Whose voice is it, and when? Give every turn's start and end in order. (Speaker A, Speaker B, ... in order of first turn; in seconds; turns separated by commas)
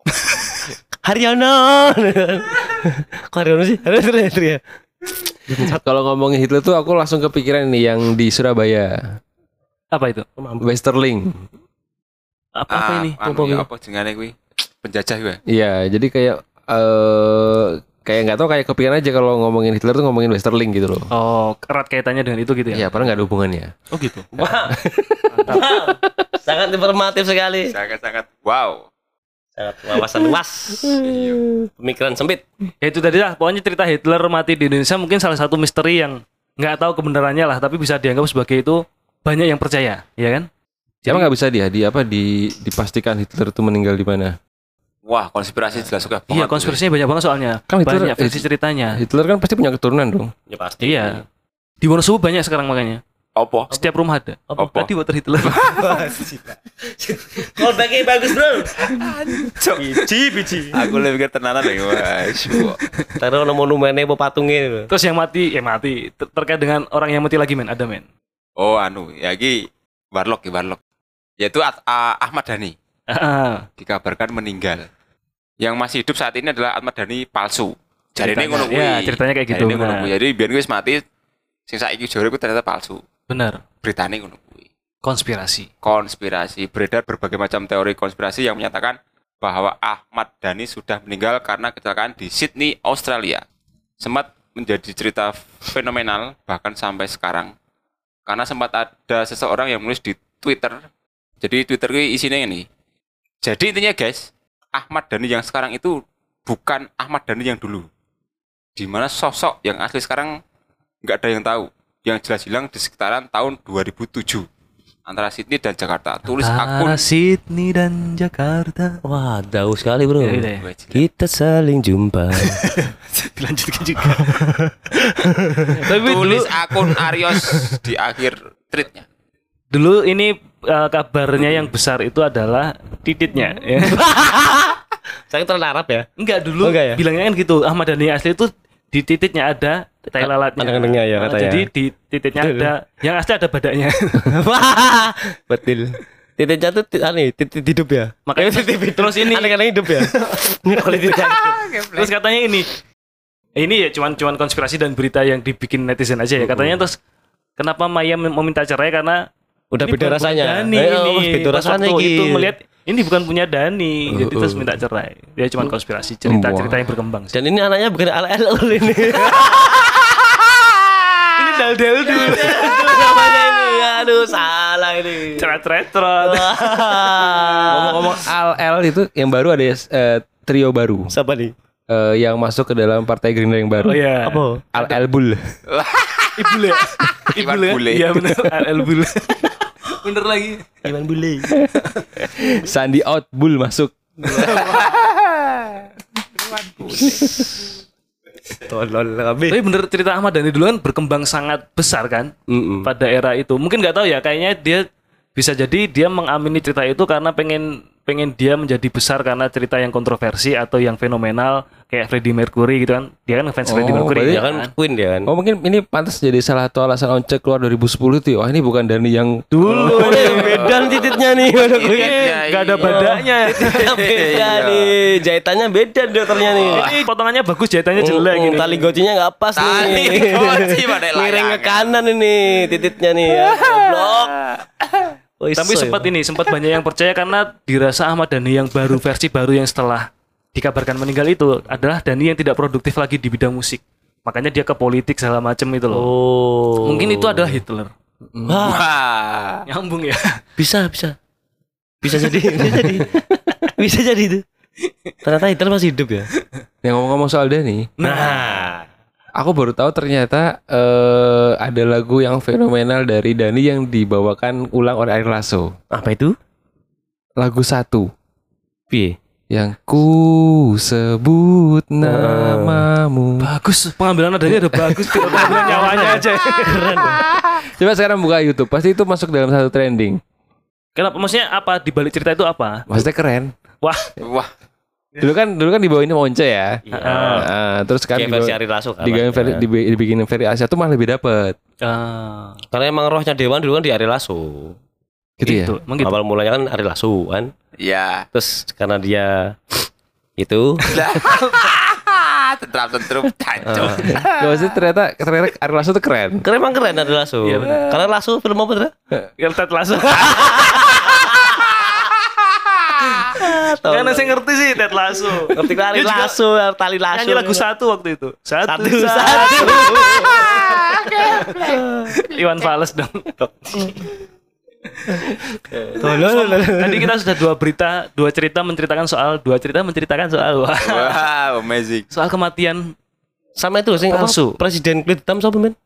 Speaker A: 0.1-0.7, Speaker B: 1.0-5.8, Speaker C: 5.7-9.2, Speaker A: 9.9-10.2, Speaker B: 10.4-10.6, Speaker C: 10.6-11.3, Speaker A: 12.6-13.2, Speaker D: 12.7-15.4, Speaker B: 13.2-13.7, Speaker C: 15.5-21.1, Speaker A: 21.1-22.9, Speaker C: 22.7-23.7, Speaker A: 23.9-24.3, Speaker B: 24.3-27.7, Speaker A: 25.3-25.8, Speaker D: 27.7-28.9, Speaker B: 29.6-32.4, Speaker D: 31.0-31.4, Speaker A: 32.8-40.5, Speaker A: 41.0-41.3, Speaker C: 41.0-44.4, Speaker D: 45.0-46.8, Speaker A: 46.3-49.0, Speaker C: 47.7-50.3, Speaker B: 50.5-51.2, Speaker A: 50.8-51.2, Speaker A: 51.8-53.0, Speaker D: 53.4-53.7, Speaker A: 53.7-55.7, Speaker B: 54.5-54.9, Speaker D: 55.4-56.0, Speaker B: 55.5-59.1, Speaker D: 58.9-60.0, Speaker B: 59.8-60.7, Speaker D: 60.7-62.8, Speaker A: 62.9-63.1, Speaker B: 63.2-64.9, Speaker A: 64.9-68.0, Speaker D: 68.6-70.8, Speaker D: 71.4-72.7, Speaker A: 73.1-73.7, Speaker D: 73.8-74.9, Speaker D: 75.6-81.0, Speaker A: 78.2-80.0, Speaker D: 81.7-83.0, Speaker A: 83.3-83.6, Speaker D: 83.8-84.7, Speaker A: 85.0-85.7, Speaker D: 85.8-93.4, Speaker D: 94.0-97.5, Speaker D: 98.3-100.8, Speaker D: 101.4-102.6, Speaker D: 103.4-107.9, Speaker D: 108.8-110.4, Speaker D: 111.0-114.5, Speaker D: 115.1-117.0, Speaker A: 116.4-119.0, Speaker B: 119.0-122.6, Speaker A: 120.2-120.6, Speaker D: 120.6-121.0, Speaker A: 122.4-124.5, Speaker B: 124.2-125.8, Speaker A: 125.7-126.5, Speaker D: 126.0-129.0, Speaker A: 129.7-134.0, Speaker B: 133.8-136.1, Speaker A: 136.2-144.3, Speaker B: 136.6-137.0, Speaker B: 140.2-141.7, Speaker B: 142.4-142.7, Speaker B: 144.2-152.1, Speaker A: 148.3-149.6, Speaker A: 151.8-152.7, Speaker A: 153.6-157.0, Speaker B: 156.4-156.8, Speaker A: 157.6-159.2, Speaker B: 159.7-162.5, Speaker A: 159.8-167.3, Speaker B: 164.1-164.7, Speaker C: 166.2-166.9, Speaker B: 167.3-170.4, Speaker A: 171.3-173.2, Speaker B: 172.0-175.6, Speaker A: 175.3-178.0, Speaker B: 176.2-178.1, Speaker C: 177.7-181.1, Speaker B: 181.1-181.5, Speaker C: 181.9-184.0, Speaker A: 183.8-185.0, Speaker B: 184.2-184.6, Speaker C: 184.7-185.6, Speaker D: 185.7-188.3, Speaker A: 186.4-190.7, Speaker B: 190.8-191.6, Speaker A: 191.9-192.2, Speaker C: 192.4-194.7, Speaker B: 194.3-194.9, Speaker A: 194.3-194.9, Speaker D: 196.8-197.1, Speaker B: 198.6-199.6, Speaker A: 199.5-202.3, Speaker B: 202.5-202.9, Speaker A: 202.8-214.7, Speaker C: 213.7-214.5, Speaker B: 214.3-215.3, Speaker C: 215.2-220.7, Speaker A: 219.5-220.9, Speaker B: 219.7-222.2, Speaker D: 220.4-223.1, Speaker A: 221.6-224.0, Speaker B: 222.8-227.0, Speaker D: 223.7-224.9, Speaker D: 226.4-226.9, Speaker A: 226.7-228.9, Speaker B: 228.0-234.6, Speaker D: 229.6-232.0, Speaker B: 235.4-236.1, Speaker A: 235.6-246.1, Speaker B: 245.9-247.6, Speaker A: 246.8-247.9, Speaker C: 248.3-248.8, Speaker B: 248.5-248.8, Speaker D: 248.6-249.6, Speaker A: 249.7-250.4, Speaker B: 250.6-251.2, Speaker B: 252.0-254.4, Speaker A: 252.5-253.7, Speaker A: 254.8-255.1, Speaker B: 255.2-256.3, Speaker C: 256.8-257.9, Speaker A: 258.0-258.7, Speaker B: 258.0-258.9, Speaker C: 259.4-265.7, Speaker B: 265.9-266.4, Speaker C: 267.4-268.1, Speaker B: 268.9-269.2, Speaker C: 269.5-273.5, Speaker B: 272.0-272.9, Speaker A: 273.4-277.2, Speaker C: 274.7-275.4, Speaker B: 275.1-277.3, Speaker C: 277.5-280.2, Speaker A: 280.9-282.9, Speaker C: 282.9-283.5, Speaker A: 283.8-284.1, Speaker D: 284.2-284.5, Speaker C: 285.2-291.6, Speaker B: 286.9-287.5, Speaker A: 286.9-287.5, Speaker B: 288.1-289.6, Speaker A: 291.8-292.6, Speaker B: 292.7-294.8, Speaker C: 295.4-295.8, Speaker A: 295.4-296.2, Speaker B: 296.0-297.5, Speaker D: 297.8-298.2, Speaker B: 298.3-299.9, Speaker B: 300.4-301.0, Speaker D: 300.9-304.6, Speaker B: 303.6-304.2, Speaker C: 303.6-306.4, Speaker B: 306.4-308.9, Speaker A: 307.4-308.0, Speaker A: 309.4-311.3, Speaker B: 310.2-312.1, Speaker B: 313.2-314.4, Speaker A: 313.8-316.4, Speaker B: 315.4-317.6, Speaker A: 317.1-324.1, Speaker B: 318.7-322.1, Speaker B: 323.4-324.1, Speaker B: 325.2-327.3, Speaker A: 325.9-331.2, Speaker D: 330.8-332.1, Speaker A: 332.1-332.9, Speaker B: 333.6-335.8, Speaker A: 334.0-334.6